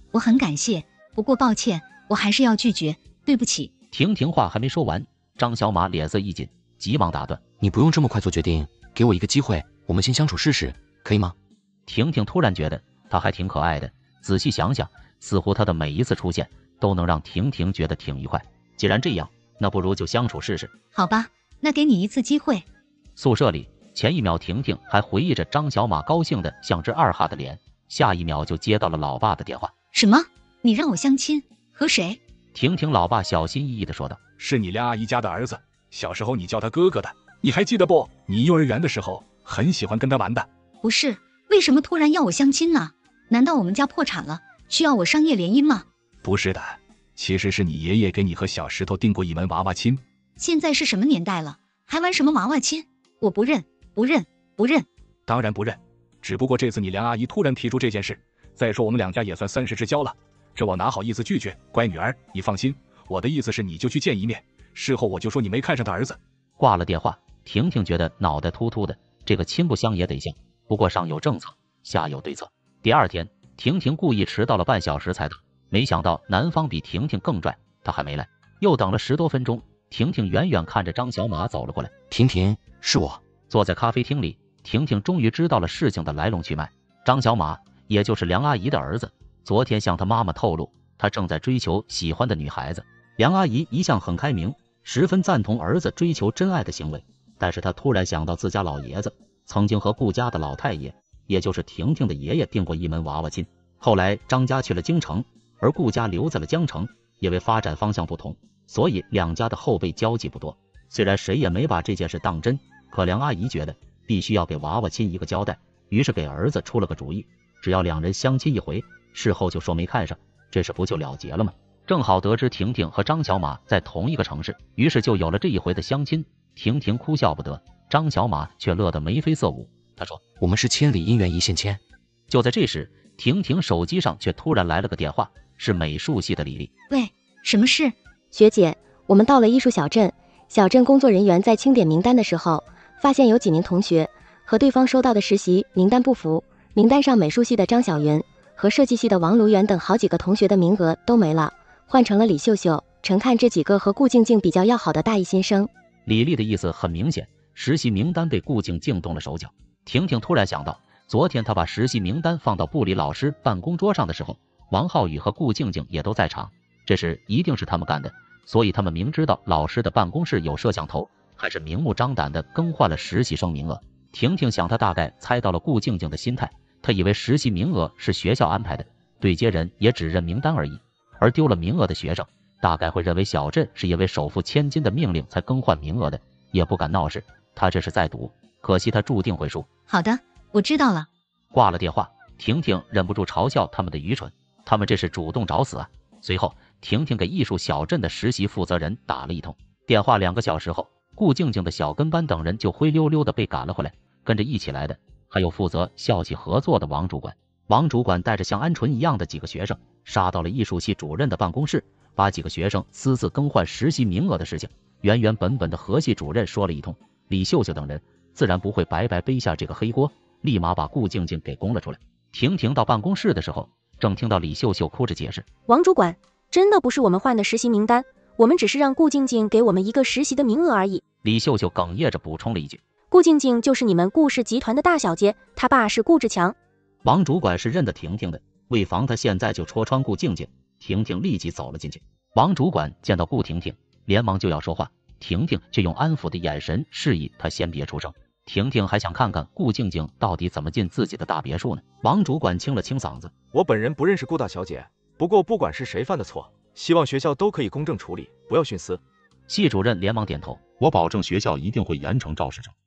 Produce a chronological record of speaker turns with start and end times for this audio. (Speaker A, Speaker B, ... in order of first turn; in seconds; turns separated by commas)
Speaker A: 0.1-3.7, Speaker B: 3.9-7.4, Speaker C: 7.6-11.3, Speaker B: 11.9-20.7, Speaker A: 20.9-22.6, Speaker B: 23.2-29.7, Speaker A: 29.9-32.2, Speaker B: 32.5-34.2, Speaker D: 34.4-40.5, Speaker A: 40.8-45.9, Speaker D: 46.2-50.0, Speaker A: 50.4-54.9, Speaker D: 55.3-66.2, Speaker B: 66.6-81.9, Speaker C: 82.1-83.2, Speaker B: 83.5-130.2, Speaker C: 130.4-131.8, Speaker B: 132.3-136.7, Speaker A: 136.9-137.9, Speaker E: 138.3-155.7, Speaker B: 156.1-189.7, Speaker A: 189.9-191.1, Speaker B: 191.5-225.4, Speaker F: 225.7-231.0, Speaker B: 231.2-232.8, Speaker F: 233.1-236.6, Speaker B: 237.0-253.3, Speaker G: 253.5-259.0, Speaker B: 259.5-260.6, Speaker H: 260.8-262.7